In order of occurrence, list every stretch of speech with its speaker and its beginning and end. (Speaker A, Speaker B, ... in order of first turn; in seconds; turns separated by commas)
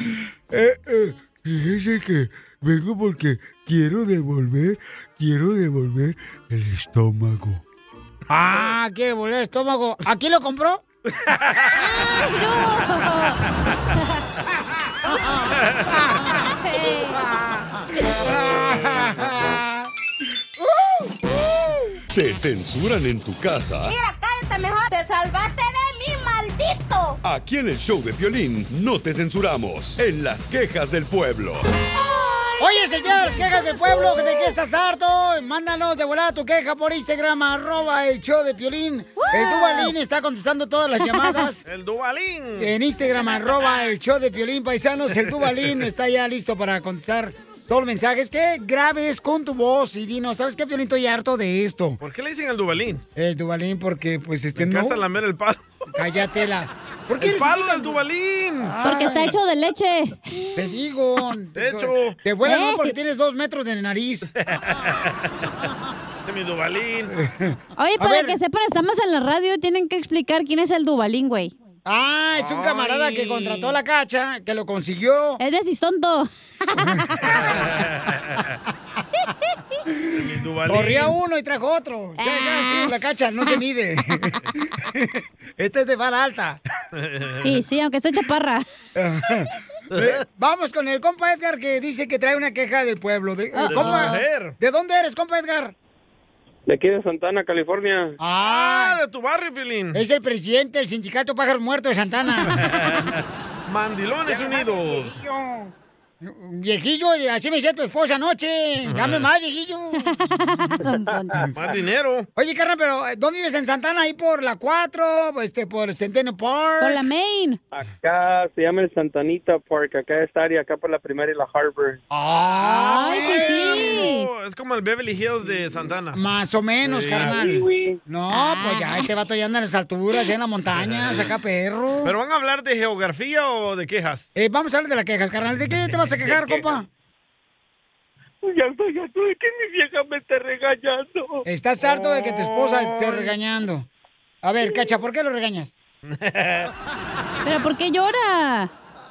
Speaker A: 0.7-7.6, Speaker B: 8.3-10.8, Speaker C: 11.2-11.8, Speaker D: 11.8-13.4, Speaker C: 15.6-15.9, Speaker B: 15.9-16.3, Speaker D: 16.4-17.3, Speaker B: 18.2-19.9, Speaker E: 22.1-24.0, Speaker F: 24.0-27.2, Speaker E: 27.2-31.6, Speaker B: 32.6-41.6, Speaker D: 32.8-34.5, Speaker D: 39.2-39.9, Speaker D: 41.0-41.5, Speaker C: 41.7-42.7, Speaker B: 42.6-52.0, Speaker C: 52.0-53.0, Speaker B: 53.2-55.0, Speaker C: 54.6-55.6, Speaker B: 56.0-58.0, Speaker C: 57.2-58.8, Speaker B: 58.6-59.4, Speaker D: 58.8-60.5, Speaker B: 60.6-64.3, Speaker C: 61.6-62.2, Speaker D: 62.5-62.9, Speaker C: 64.4-65.2, Speaker C: 66.3-67.1, Speaker B: 67.2-68.4, Speaker D: 67.8-71.5, Speaker B: 71.9-75.4, Speaker C: 72.4-73.6, Speaker D: 75.4-77.3, Speaker B: 76.9-77.5, Speaker C: 77.4-78.5, Speaker C: 80.1-81.2, Speaker B: 80.7-86.6, Speaker D: 82.2-82.9, Speaker C: 86.9-87.6, Speaker D: 87.4-88.6, Speaker B: 89.0-95.7, Speaker C: 89.9-90.2, Speaker D: 93.6-94.2, Speaker C: 93.7-94.6, Speaker G: 96.7-98.2, Speaker B: 98.2-99.0, Speaker C: 98.4-100.0, Speaker B: 99.9-102.7, Speaker C: 102.5-105.2, Speaker G: 104.3-105.7, Speaker B: 106.2-110.3, Speaker C: 108.9-109.3, Speaker D: 110.0-111.5, Speaker C: 111.5-112.3, Speaker B: 112.4-117.1, Speaker D: 116.8-117.6, Speaker G: 117.7-122.0, Speaker B: 122.1-124.0, Speaker D: 122.7-124.3, Speaker C: 123.0-126.2, Speaker B: 126.1-132.1, Speaker C: 126.8-127.4, Speaker G: 127.1-128.0, Speaker D: 128.3-129.1, Speaker C: 130.8-131.3, Speaker C: 132.0-134.3, Speaker B: 134.4-136.9, Speaker C: 136.2-136.8, Speaker G: 138.4-141.4, Speaker B: 141.4-143.9, Speaker C: 141.9-143.3, Speaker B: 144.4-145.7, Speaker C: 146.1-146.7, Speaker D: 147.4-148.7